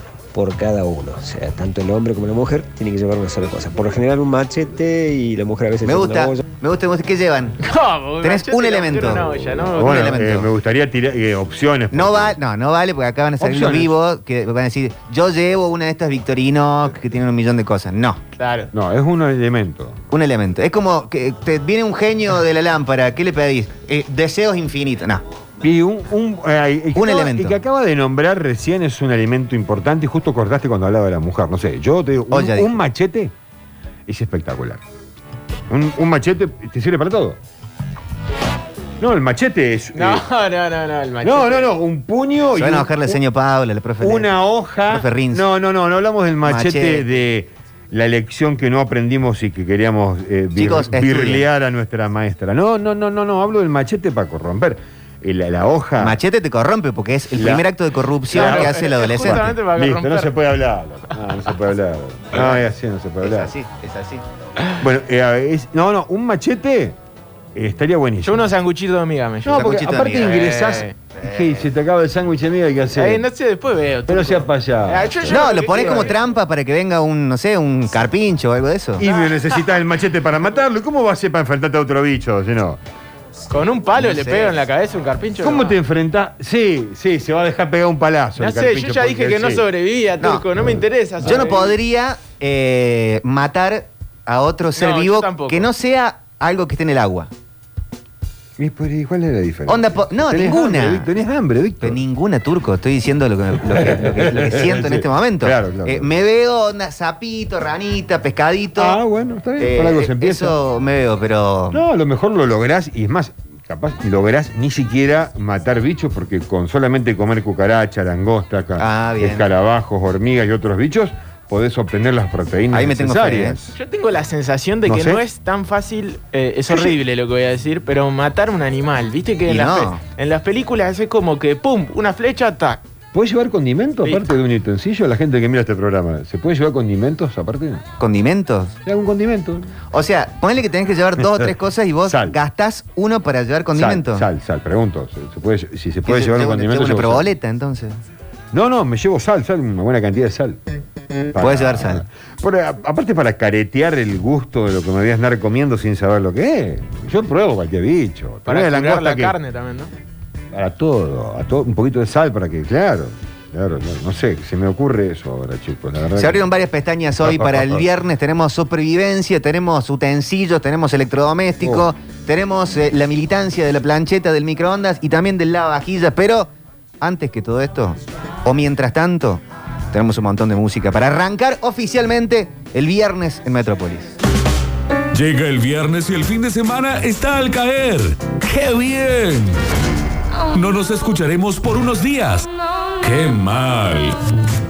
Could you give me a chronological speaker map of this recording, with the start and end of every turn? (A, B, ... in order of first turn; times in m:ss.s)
0:00.3-0:06.4 A
0:05.8-0:07.6 B
0:07.6-0:10.2 C
0:08.2-0:10.5 B
0:09.2-0:12.4 D
0:11.9-0:18.2 B
0:13.4-0:14.0 D
0:18.4-0:18.7 C
0:18.7-0:20.0 D
0:20.1-0:25.2 B
0:25.6-0:33.3 D
0:27.0-0:27.6 B
0:32.3-0:32.7 B
0:34.1-0:34.8 D
0:35.7-0:37.4 D
0:39.0-0:40.3 D
0:40.0-0:41.7 C
0:41.2-0:43.2 D
0:42.6-0:45.5 B
0:44.0-0:56.2 D
0:46.4-0:47.0 B
0:50.6-0:51.4 B
0:56.0-0:59.5 B
0:57.4-0:57.7 D
0:58.3-1:03.5 D
0:58.3-1:00.4 C
1:02.3-1:02.6 B
1:03.2-1:04.2 B
1:04.8-1:07.0 D
1:07.6-1:08.5 D
1:08.2-1:10.9 C
1:09.4-1:13.3 D
1:09.5-1:10.6 B
1:11.2-1:11.6 B
1:13.0-1:16.2 C
1:14.1-1:16.1 D
1:15.3-1:19.0 B
1:19.0-1:22.8 D
1:19.0-1:19.6 C
1:23.5-1:25.8 C
1:24.0-1:24.5 B
1:25.4-1:29.6 D
1:28.4-1:31.7 C
1:30.6-1:31.6 D
1:31.2-1:37.3 B
1:34.8-1:35.7 C
1:38.6-1:42.0 D
1:39.7-1:41.1 B
1:41.8-1:49.0 B
1:43.6-1:46.1 D
1:48.8-1:50.6 D
1:49.6-1:51.8 B
1:51.7-2:03.8 D
1:58.8-1:59.5 B
2:02.7-2:03.6 B
2:03.8-2:12.8 C
2:04.8-2:05.2 D
2:09.5-2:10.0 B
2:13.1-2:17.8 D
2:18.0-2:18.8 B
2:18.8-2:19.7 D
2:19.9-2:24.3 B
2:21.2-2:21.5 D
2:22.1-2:22.4 D
2:23.8-2:27.3 D
2:26.1-2:28.0 B
2:28.5-2:30.6 D
2:31.3-2:39.4 D
2:31.4-2:32.0 B
2:38.5-2:39.9 C
2:40.5-2:46.4 D
2:46.2-3:04.2 B
2:47.2-2:47.9 D
2:51.6-2:51.9 D
3:05.1-3:09.6 E
3:10.5-3:14.2 E